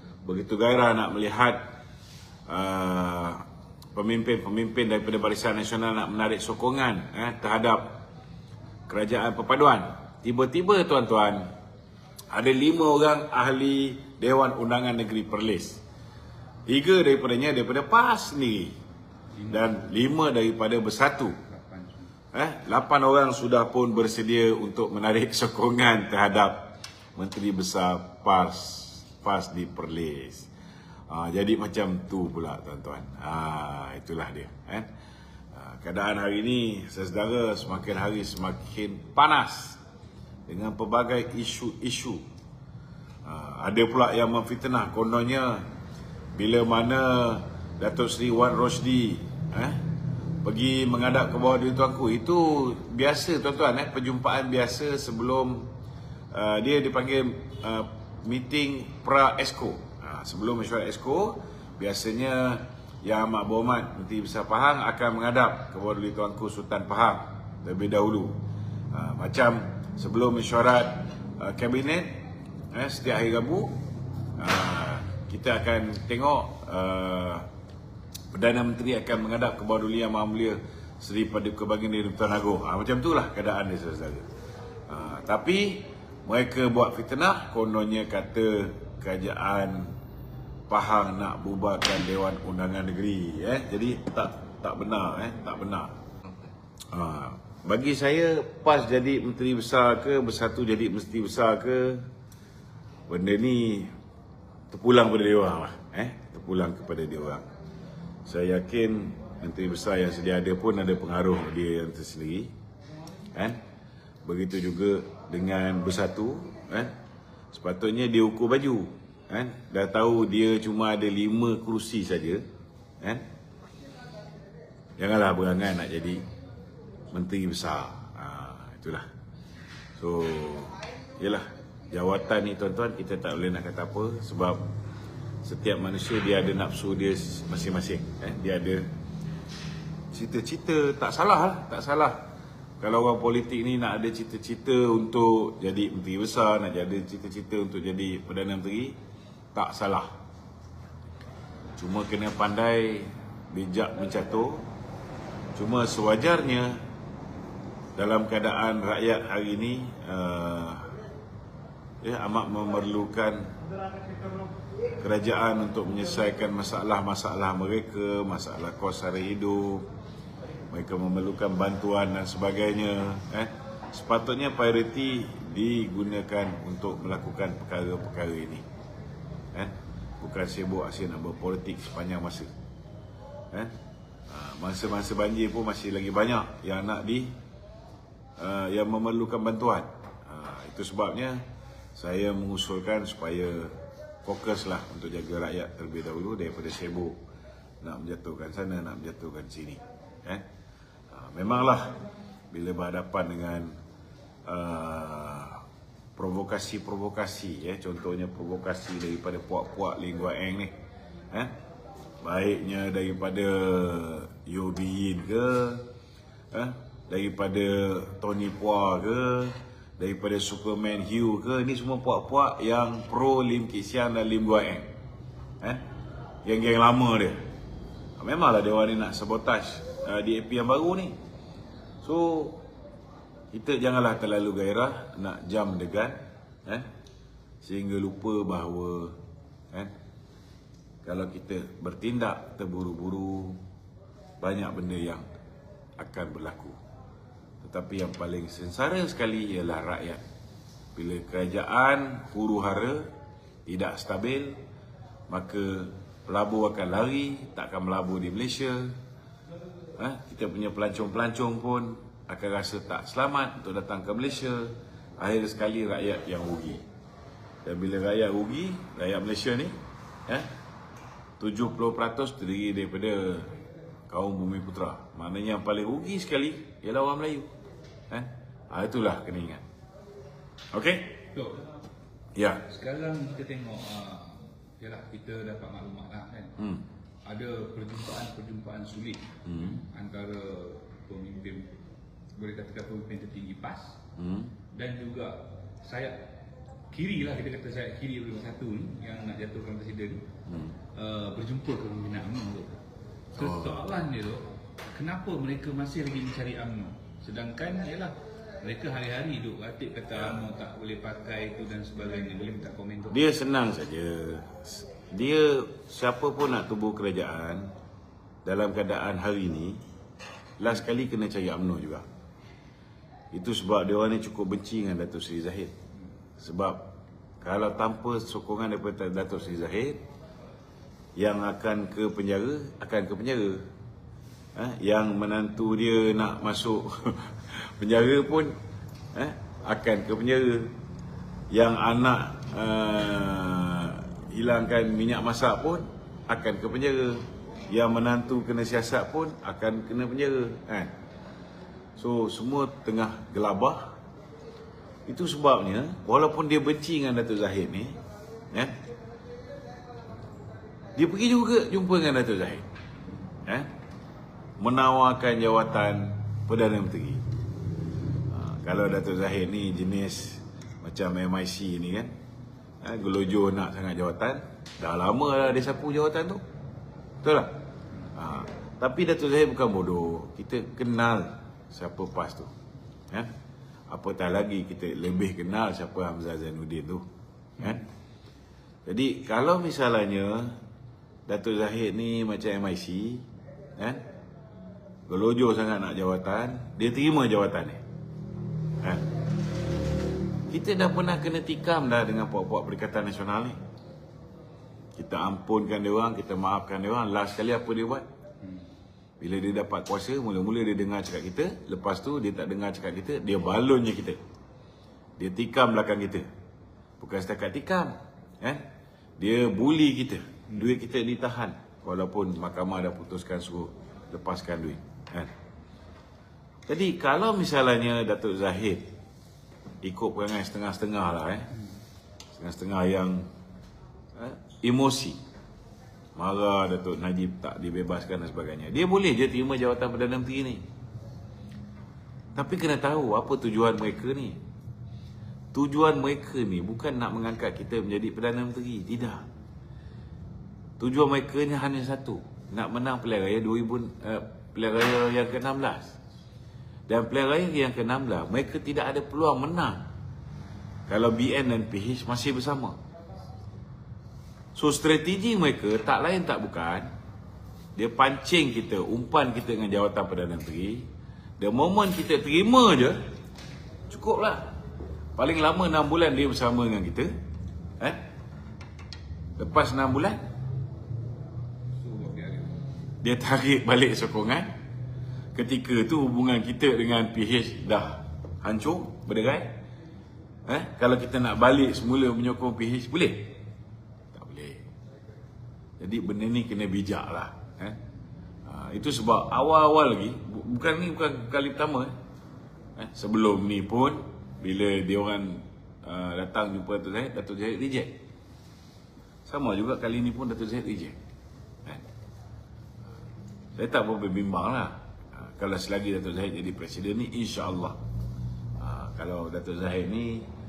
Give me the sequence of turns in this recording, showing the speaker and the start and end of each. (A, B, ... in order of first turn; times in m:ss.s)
0:00.2-0:01.6 A
0:02.5-0:03.4 A
0:04.0-0:08.0 A
0:08.9-0:11.5 A
0:12.3-0:15.8 A
0:16.7-0:18.8 A
0:19.4-0:19.7 B
0:19.5-0:21.4 A
0:21.4-0:22.1 B
0:22.3-0:30.5 A
0:31.1-0:34.9 A
0:35.5-0:39.8 A
0:40.5-0:42.2 A
0:43.3-0:45.7 A
0:46.3-0:49.8 A
0:50.4-0:55.7 A
0:56.3-1:08.4 A
1:08.9-1:13.8 A
1:14.4-1:17.5 A
1:18.3-1:24.2 A
1:24.9-1:30.0 A
1:30.7-1:35.9 A
1:36.9-1:42.1 A
1:43.1-1:43.9 A
1:44.7-1:47.5 A
1:48.3-1:52.5 A
1:53.4-1:53.6 A
1:54.2-1:56.9 A
1:57.5-2:02.4 A
2:05.0-2:06.2 A
2:07.1-2:09.1 A
2:10.0-2:14.6 A
2:15.4-2:18.9 A
2:20.1-2:22.2 A
2:22.8-2:29.0 A
2:29.5-2:30.1 A
2:31.8-2:34.7 A
2:35.6-2:36.8 A
2:38.0-2:40.9 A
2:42.0-2:43.5 A
2:45.0-2:49.9 A
2:50.7-2:58.6 A
2:59.5-3:02.5 A
3:04.3-3:07.4 A
3:08.4-3:11.4 A
3:12.0-3:17.2 A
3:17.8-3:20.4 A
3:21.1-3:22.0 A
3:22.5-3:23.8 A
3:24.5-3:25.6 A
3:26.2-3:30.8 A
3:32.2-3:35.9 A
3:36.5-3:44.9 A
3:46.4-3:47.4 A
3:48.2-3:51.2 A
3:52.0-3:52.6 A
3:53.5-3:56.9 A
3:57.6-3:59.2 A
4:01.0-4:03.6 A
4:04.4-4:05.2 A
4:06.0-4:06.8 A
4:07.6-4:10.2 A
4:11.0-4:13.1 A
4:13.7-4:14.6 A
4:15.3-4:19.0 A
4:20.0-4:26.8 A
4:27.6-4:29.8 A
4:31.4-4:33.5 A
4:34.1-4:37.5 A
4:38.1-4:39.6 A
4:40.7-4:41.2 A
4:41.3-4:41.6 B
4:42.4-4:42.6 A
4:42.7-4:46.6 B
4:46.6-4:46.8 A
4:47.3-4:51.8 B
4:49.5-4:49.8 A
4:52.4-4:54.0 B
4:54.2-4:54.5 A
4:54.7-4:56.3 B
4:56.9-5:00.3 B
5:00.5-5:00.8 A
5:00.9-5:02.8 B
5:03.3-5:13.2 B
5:03.4-5:03.8 A
5:10.2-5:10.4 A
5:13.1-5:17.7 A
5:18.4-5:19.8 A
5:20.6-5:22.0 A
5:23.3-5:25.7 A
5:26.4-5:30.0 A
5:31.2-5:33.7 A
5:34.6-5:38.5 A
5:39.1-5:40.7 A
5:41.5-5:50.9 A
5:52.0-5:54.0 A
5:55.1-5:58.0 A
6:01.0-6:02.7 A
6:04.6-6:07.2 A
6:08.3-6:12.1 A
6:12.8-6:16.4 A
6:17.2-6:17.6 A
6:18.1-6:22.5 A
6:23.9-6:27.1 A
6:28.9-6:30.6 A
6:31.3-6:33.3 A
6:33.8-6:34.0 A
6:35.1-6:37.8 A
6:40.5-6:43.6 A
6:45.0-6:48.1 A
6:49.2-6:54.2 A
6:55.2-6:56.3 A
6:57.0-6:58.6 A
6:59.2-7:05.3 A
7:06.7-7:08.9 A
7:09.8-7:11.5 A
7:12.4-7:13.3 A
7:14.2-7:15.2 A
7:16.2-7:20.6 A
7:22.4-7:24.4 A
7:25.5-7:29.2 A
7:30.8-7:36.0 A
7:36.9-7:39.8 A
7:40.9-7:42.8 A
7:44.6-7:46.9 A
7:47.8-7:50.9 A
7:51.4-7:53.0 A
7:53.9-7:54.5 A
7:55.2-7:57.1 A
7:59.4-8:00.2 A
8:01.8-8:02.6 B
8:03.0-8:04.5 A
8:05.4-8:09.6 A
8:10.5-8:13.3 A
8:14.1-8:14.6 A
8:15.8-8:17.8 A
8:18.5-8:21.9 A
8:22.8-8:28.0 A
8:29.3-8:31.0 A
8:33.6-8:37.8 A
8:38.6-8:40.3 A